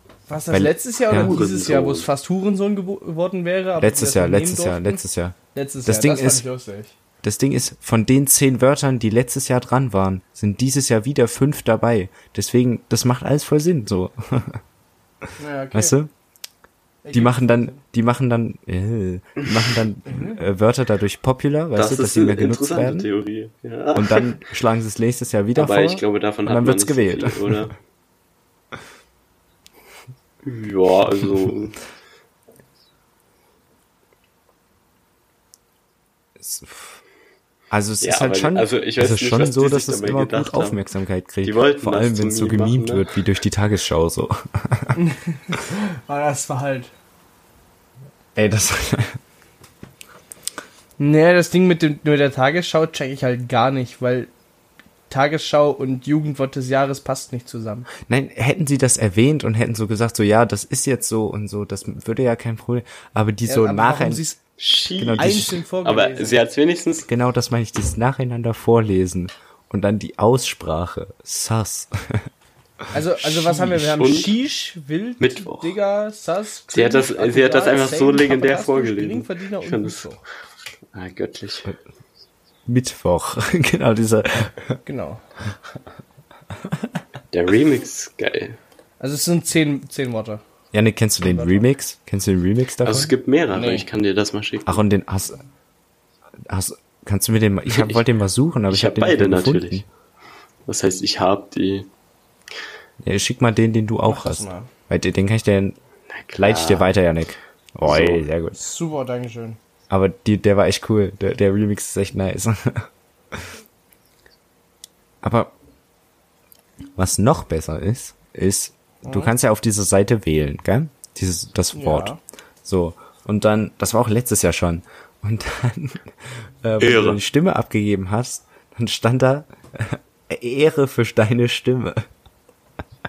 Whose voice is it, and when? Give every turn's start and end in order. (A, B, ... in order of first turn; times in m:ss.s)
0:00.3-0:06.9 A
0:00.5-0:01.3 B
0:01.1-0:02.1 C
0:03.8-0:06.5 B
0:07.2-0:14.6 B
0:15.4-0:15.9 A
0:15.7-0:16.1 B
0:17.0-0:17.8 A
0:17.1-0:23.1 B
0:20.0-0:20.4 A
0:21.8-0:24.4 C
0:23.9-0:27.6 B
0:25.5-0:27.7 C
0:30.4-0:31.8 C
0:36.4-0:37.0 B
0:37.7-0:45.0 B
0:38.0-0:40.8 C
0:41.4-0:43.0 C
0:44.9-0:46.9 A
0:48.4-0:49.2 B
0:51.0-0:54.3 A
0:55.1-0:57.9 A
0:58.0-1:04.2 B
1:03.5-1:04.4 A
1:04.6-1:07.1 C
1:05.0-1:05.6 B
1:05.2-1:06.4 A
1:07.1-1:12.2 B
1:12.9-1:20.2 A
1:13.4-1:14.4 C
1:15.2-1:15.7 C
1:16.7-1:20.1 C
1:20.9-1:21.7 C
1:22.7-1:24.8 B
1:24.8-1:25.2 A
1:26.6-1:27.0 B
1:27.3-1:28.6 C
1:29.0-1:30.4 A
1:30.7-1:33.1 B
1:31.2-1:31.7 A
1:32.8-1:34.8 C
1:33.5-1:33.9 A
1:34.6-1:35.4 B
1:36.4-1:39.8 B
1:37.7-1:38.0 C
1:38.7-1:39.8 C
1:40.6-1:41.9 C
1:43.0-1:45.8 B
1:44.0-1:44.7 A
1:46.1-1:46.9 C
1:46.4-1:48.6 B
1:47.8-1:48.2 C
1:48.5-1:49.6 A
1:49.9-1:53.5 B
1:55.2-1:55.5 B
1:57.0-2:02.1 B
1:59.0-1:59.3 A
2:01.7-2:02.2 A
2:02.6-2:12.1 B
2:06.8-2:07.2 C